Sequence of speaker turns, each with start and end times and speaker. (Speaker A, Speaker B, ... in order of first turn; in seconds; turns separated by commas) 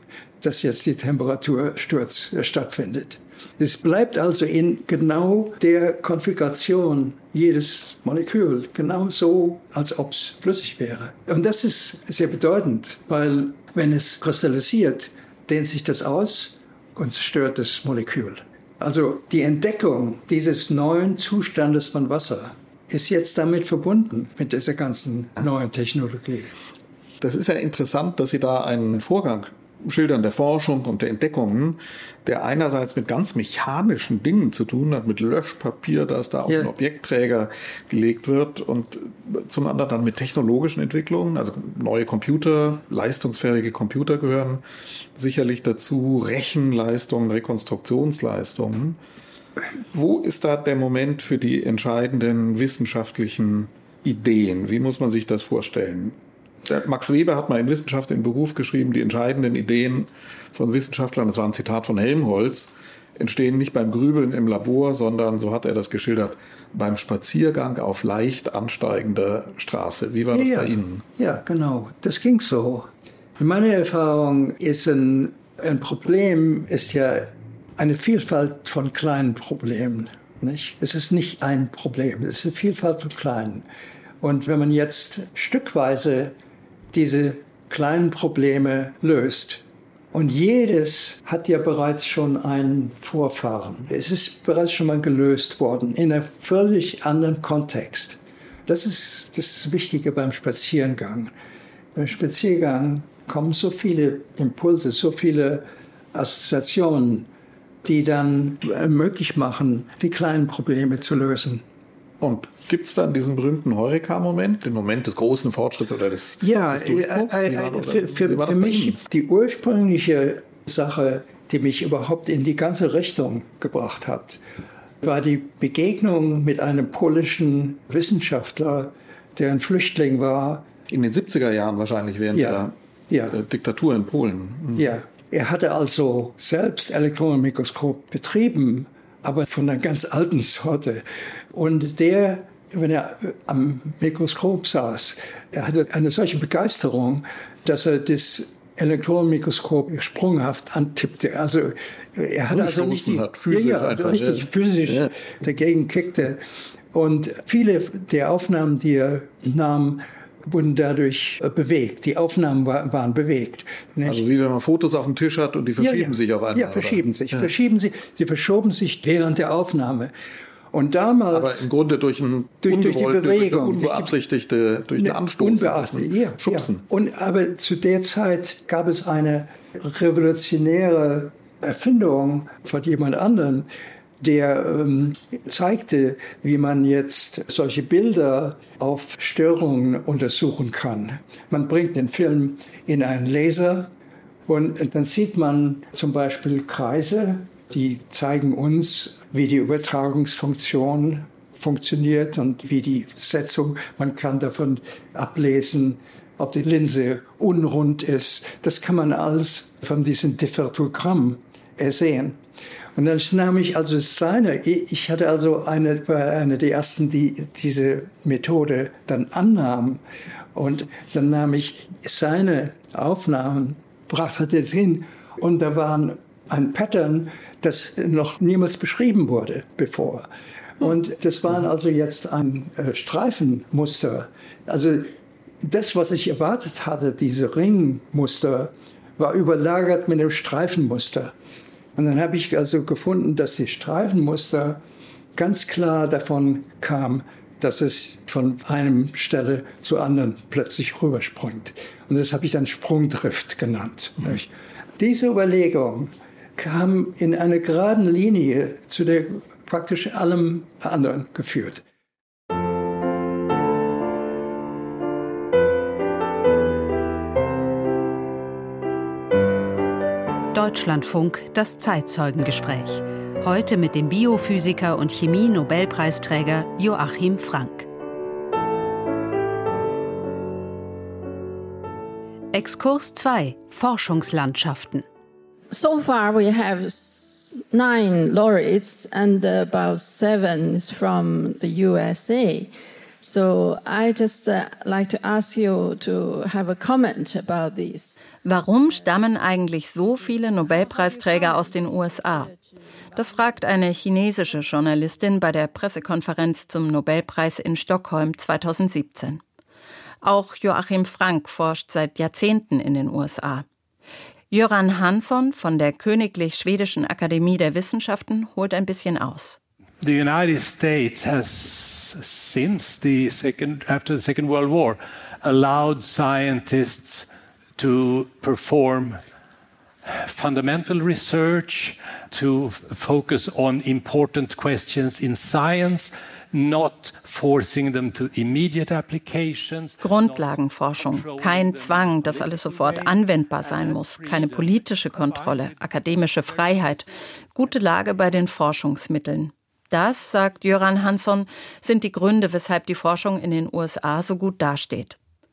Speaker A: 0.4-26.5, Speaker B: 27.2-44.6, Speaker A: 36.5-36.7, Speaker B: 45.1-49.0, Speaker B: 49.9-71.0, Speaker A: 70.3-83.7, Speaker A: 84.2-86.3, Speaker A: 86.9-101.3, Speaker A: 101.9-107.3, Speaker A: 107.8-111.6, Speaker B: 112.2-119.0, Speaker A: 116.4-124.4, Speaker A: 125.0-130.7, Speaker B: 130.9-132.7, Speaker A: 132.3-133.4, Speaker B: 133.3-134.9, Speaker A: 134.8-164.2, Speaker B: 152.5-155.1, Speaker B: 164.0-167.5, Speaker A: 165.8-170.1, Speaker A: 170.7-171.7, Speaker B: 171.3-176.8, Speaker A: 172.6-174.1, Speaker A: 175.0-183.7, Speaker A: 184.2-193.9, Speaker A: 194.5-212.4, Speaker A: 212.9-220.0, Speaker A: 220.5-230.3, Speaker A: 230.8-241.3, Speaker A: 241.9-244.8, Speaker A: 245.3-261.8, Speaker C: 270.5-277.9, Speaker C: 282.5-285.0, Speaker D: 285.7-298.1, Speaker E: 298.4-302.5, Speaker E: 303.1-309.4, Speaker E: 310.2-313.6, Speaker E: 314.5-319.6, Speaker F: 320.0-329.2, Speaker F: 330.1-347.1, Speaker E: 340.0-355.2